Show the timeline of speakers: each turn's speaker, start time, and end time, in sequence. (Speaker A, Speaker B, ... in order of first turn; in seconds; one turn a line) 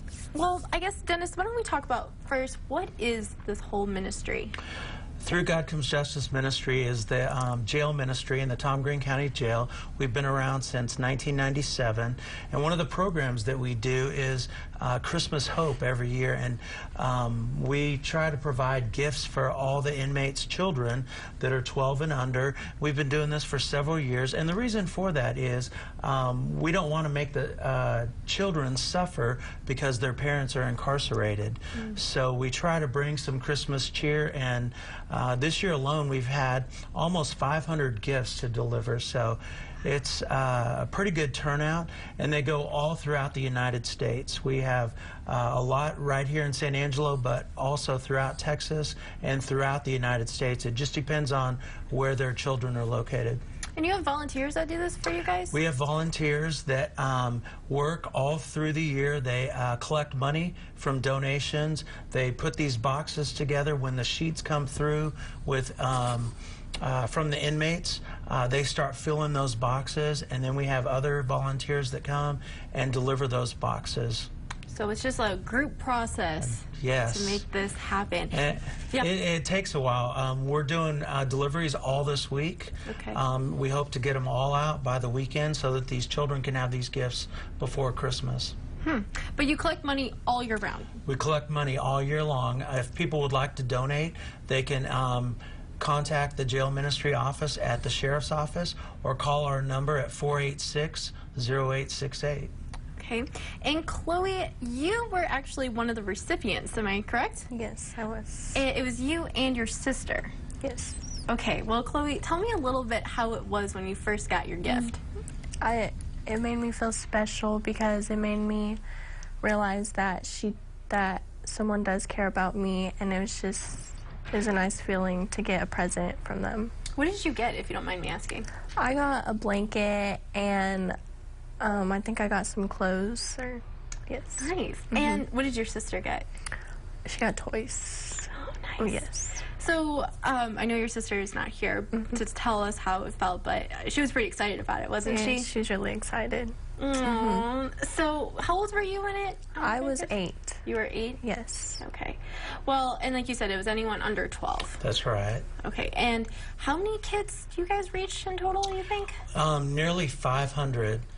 Speaker A: 0.3-4.5
Speaker B: 5.2-53.4
Speaker A: 53.8-55.6
Speaker B: 55.5-74.3
Speaker A: 74.7-79.1
Speaker B: 76.6-77.4
Speaker B: 78.3-88.5
Speaker A: 82.9-83.2
Speaker A: 88.8-90.9
Speaker B: 91.0-102.5
Speaker A: 103.0-107.5
Speaker C: 107.5-108.6
Speaker A: 108.5-110.3
Speaker C: 110.6-111.0
Speaker A: 111.3-115.0
Speaker C: 115.6-118.8
Speaker C: 119.4-126.7
Speaker A: 127.0-128.5
Speaker C: 128.8-130.9
Speaker C: 131.6-135.2
Speaker A: 134.4-136.2
Speaker C: 137.1-139.4
Speaker A: 138.3-145.5
Speaker C: 145.0-147.4
Speaker A: 146.8-151.2
Speaker C: 149.6-150.6
Speaker C: 151.2-151.8
Speaker A: 151.8-154.8
Speaker B: 154.8-155.4
Speaker A: 155.6-159.2
Speaker B: 159.3-161.0